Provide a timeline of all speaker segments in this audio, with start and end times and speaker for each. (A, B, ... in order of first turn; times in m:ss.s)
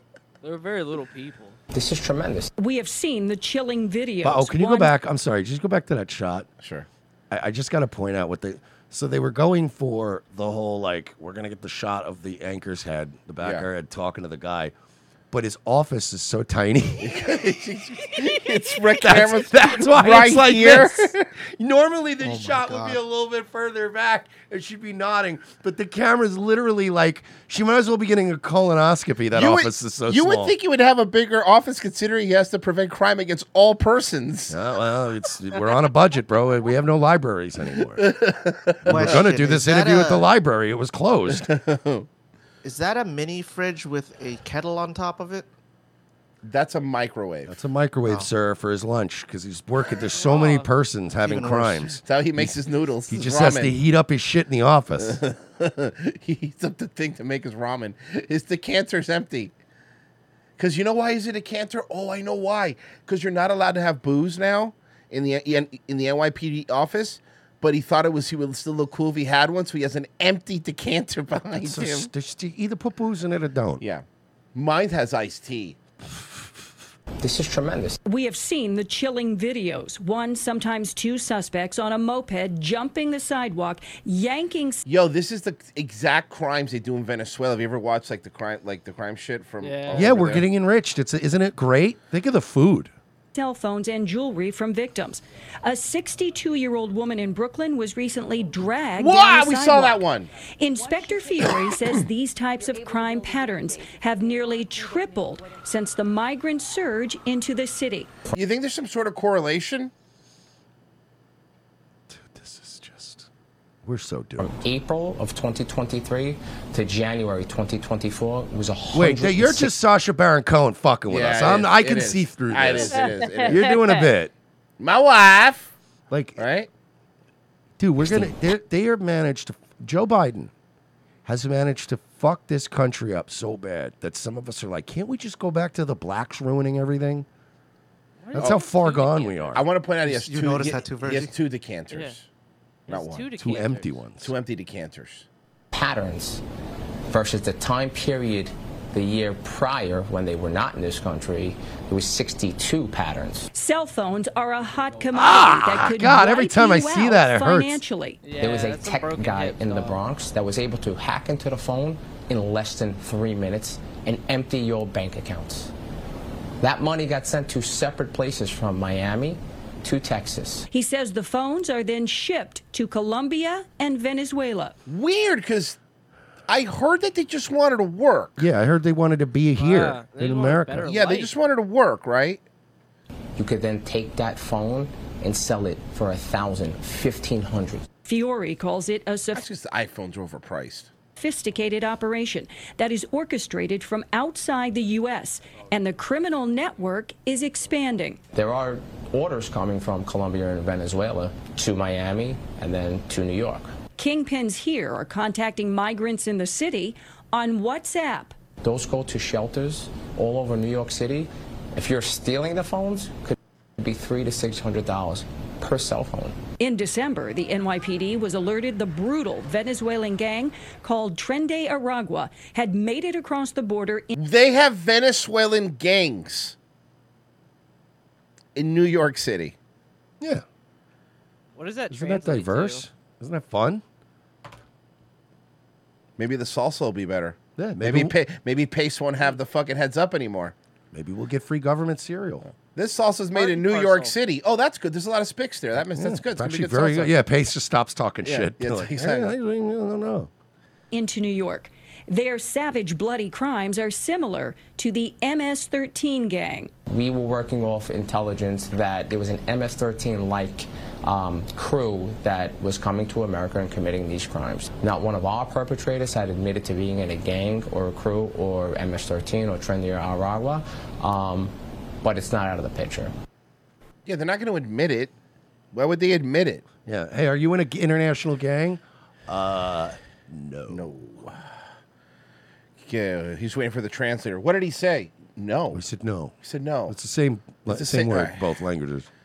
0:00.4-0:01.6 A
0:01.7-0:02.5 B
0:02.6-0:04.9 C
0:04.2-0:06.5 D
0:06.6-0:06.9 E
0:07.3-0:14.7 D
0:13.4-0:13.7 E
0:15.3-0:17.2 D
0:17.0-0:21.2 E
0:19.0-0:30.5 D
0:22.2-0:23.0 F
0:29.3-0:34.6 E
0:34.5-0:38.0 D
0:38.0-0:39.3 E
0:38.8-0:41.5 D
0:38.8-0:40.3 F
0:41.3-0:42.1 E
0:42.6-0:45.5 F
0:46.4-0:47.6 E
0:47.5-0:52.5 D
0:50.1-0:50.7 A
0:51.2-0:51.8 F
0:52.0-0:53.7 E
0:53.1-0:55.2 D
0:55.0-0:59.5 E
1:00.6-1:12.1 E
1:11.6-1:13.8 D
1:14.5-1:15.8 E
1:16.2-1:16.5 D
1:17.2-1:18.0 B
1:18.0-1:24.8 C
1:24.8-1:30.4 E
1:29.6-1:30.1 A
1:29.9-1:32.9 D
1:33.3-1:40.0 C
1:39.0-1:40.3 E
1:40.6-1:48.1 C
1:41.4-1:42.0 E
1:48.4-1:49.9 E
1:52.1-1:53.3 D
1:53.8-1:54.5 D
1:54.4-1:59.7 B
1:58.9-2:04.3 D
2:01.1-2:03.6 E
2:02.9-2:04.0 A
2:04.8-2:05.7 E
2:06.1-2:06.4 D
2:06.4-2:06.7 E
2:07.8-2:10.5 D
2:08.0-2:08.3 B
2:11.2-2:17.3 D
2:18.2-2:19.6 A
2:18.3-2:19.6 D
2:19.5-2:22.3 E
2:20.0-2:21.3 F
2:21.9-2:22.2 A
2:22.9-2:23.3 E
2:22.9-2:24.0 A
2:23.4-2:24.3 D
2:24.2-2:25.2 E
2:25.7-2:26.4 B
2:27.1-2:33.5 B
2:33.5-2:38.3 C
2:34.6-2:35.1 A
2:35.1-2:37.8 D
2:38.2-2:40.0 A
2:38.4-2:45.7 B
2:46.6-2:50.7 B
2:50.7-2:54.8 C
2:54.9-2:55.8 E
2:56.5-2:58.4 E
2:58.4-3:00.9 D
2:59.6-3:01.3 A
3:00.8-3:02.4 E
3:03.4-3:07.9 B
3:08.0-3:09.4 C
3:09.3-3:10.9 E
3:11.2-3:18.2 C
3:18.3-3:23.7 B
3:24.0-3:28.4 C
3:28.6-3:36.4 B
3:36.6-3:44.1 C
3:44.1-3:46.5 E
3:48.5-3:49.6 E
3:51.6-3:52.8 A
3:51.9-3:53.8 D
3:56.2-4:00.5 E
3:57.6-3:58.2 D
4:00.9-4:02.5 D
4:02.7-4:07.2 E
4:03.3-4:04.2 A
4:05.8-4:10.3 D
4:08.2-4:09.3 E
4:10.9-4:16.7 C
4:16.9-4:33.1 B
4:34.0-4:35.1 E
4:35.7-4:36.6 E
4:36.8-4:41.3 D
4:40.7-4:41.4 E
4:42.8-4:45.8 E
4:45.7-4:46.3 D
4:46.4-4:46.9 E
4:46.9-4:49.1 D
4:47.7-4:48.4 E